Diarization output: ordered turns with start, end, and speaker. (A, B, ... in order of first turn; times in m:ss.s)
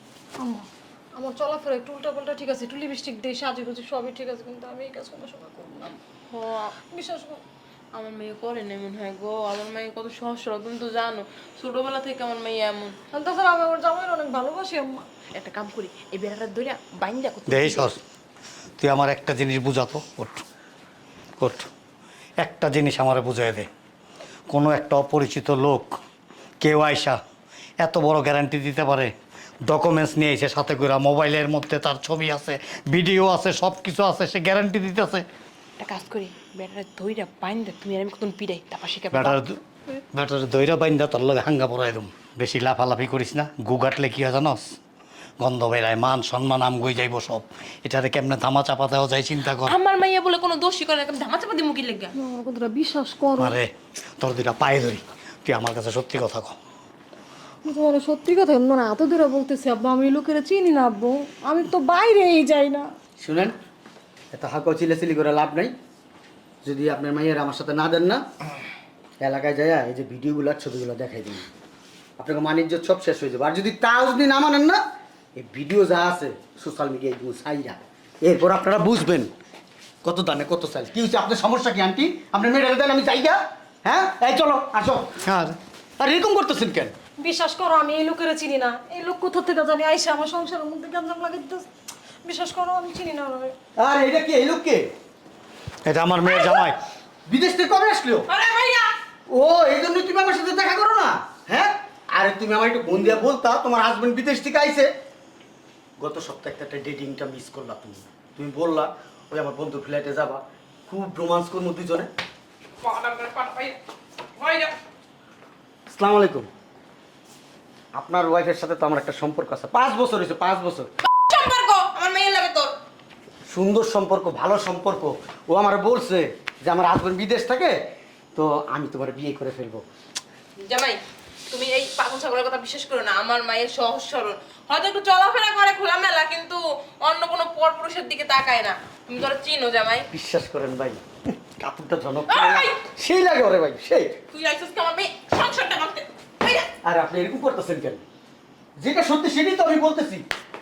0:00.4-0:06.0 A
0:06.3-0:06.7 B
0:06.9-0:07.4 A
0:07.9-0:12.9 B
0:13.1-0:15.0 A
0:15.4-0:17.9 B
0:17.5-0:18.0 C
0:18.8-0:20.4 C
0:21.4-0:21.7 C
0:22.4-0:23.7 C
0:24.5-0:25.9 C
0:26.6-0:27.2 C
0:27.8-0:29.1 C
0:29.7-0:35.2 C
0:35.8-0:39.4 B
0:39.1-0:39.6 C
0:40.1-0:44.8 C
0:45.4-0:49.8 C
0:49.5-0:52.1 B
0:52.1-0:53.6 A
0:53.4-0:56.6 C
0:57.6-1:02.9 A
1:03.2-1:03.5 D
1:04.3-1:05.7 D
1:06.6-1:08.2 D
1:09.2-1:11.5 D
1:12.2-1:14.8 D
1:15.4-1:19.3 D
1:20.0-1:25.1 D
1:25.2-1:25.6 C
1:26.0-1:26.9 D
1:27.2-1:31.6 A
1:32.2-1:33.5 A
1:33.8-1:34.9 D
1:35.8-1:36.8 C
1:36.2-1:36.6 B
1:37.3-1:38.2 D
1:38.3-1:38.9 B
1:39.3-1:44.9 D
1:46.0-1:52.1 D
1:52.8-1:53.8 B
1:54.4-1:54.8 B
1:55.9-1:56.5 D
1:58.0-2:00.9 D
2:01.0-2:02.7 B
2:03.5-2:07.7 D
2:08.3-2:09.8 D
2:10.6-2:11.0 B
2:11.5-2:20.1 B
2:20.1-2:24.2 D
2:22.3-2:22.8 B
2:24.3-2:26.7 B
2:26.8-2:28.0 D
2:28.8-2:30.2 D